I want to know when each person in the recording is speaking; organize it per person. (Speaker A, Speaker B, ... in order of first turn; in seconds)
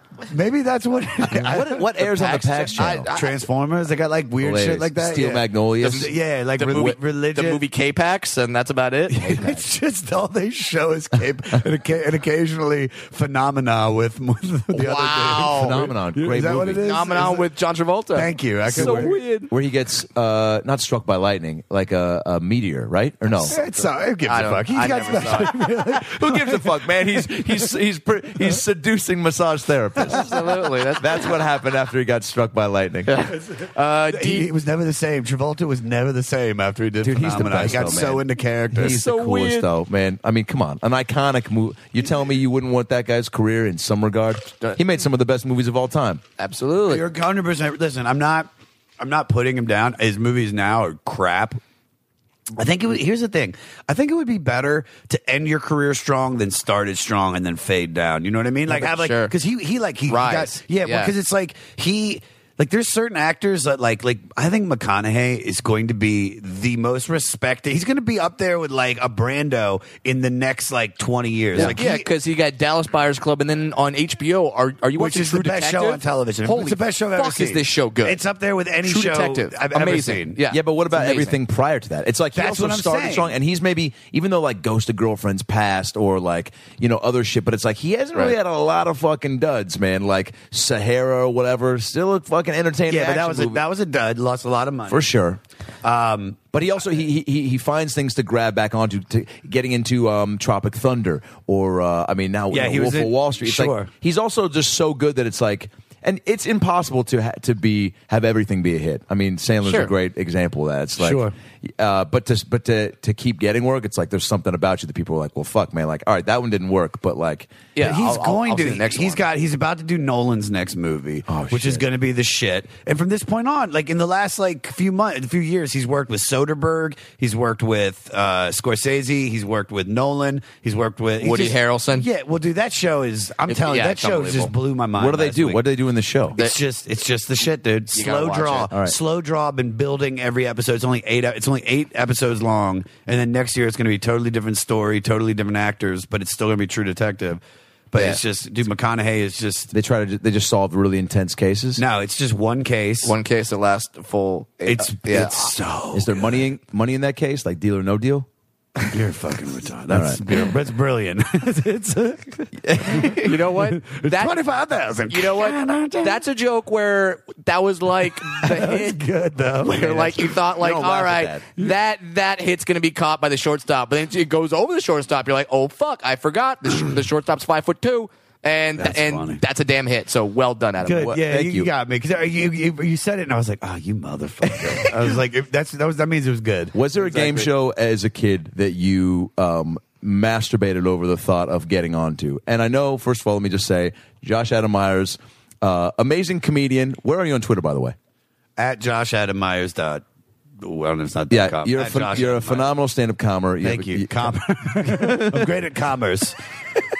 Speaker A: 0.3-2.0, 2.8-7.6, 9.1-17.5, 18.1-19.1, 23.5-26.8, 34.0-39.0, 46.9-48.5, 49.0-51.6, 52.6-72.1, 75.0-80.4, 82.3-83.3, 92.9-95.1, 95.8-96.4, 102.5-103.9, 111.0-111.3, 117.8-135.6, 136.3-147.4, 147.9-149.7, 151.8-153.2, 154.7-156.5, 158.9-166.2, 168.3-170.4, 178.8-179.4, 180.8-186.8, 198.6-200.0, 200.6-202.7, 203.6-206.4
Speaker B: 1.3-3.1, 4.4-6.1, 15.5-16.8, 18.7-23.6, 25.9-30.4, 31.0-33.2, 37.0-46.2, 80.5-93.6, 94.9-95.4, 96.5-117.5, 121.3-121.8, 135.0-136.4, 149.7-151.8, 155.9-158.3, 159.9-160.4, 162.6-163.4, 170.6-171.4, 181.0-181.7, 186.7-198.0, 201.3-205.5
Speaker C: 2.1-3.4, 5.8-9.6, 14.7-15.8, 16.8-19.5, 23.4-23.7, 24.2-25.6, 30.0-31.2, 33.1-34.5, 38.8-39.7, 46.4-47.0, 58.7-59.3, 60.1-61.1, 71.6-78.2, 78.8-81.4, 109.7-109.9, 117.8-119.2, 131.2-132.1, 133.5-134.5, 137.9-138.7, 153.0-155.5, 163.1-164.4, 165.1-169.0, 169.7-181.1, 187.0-187.5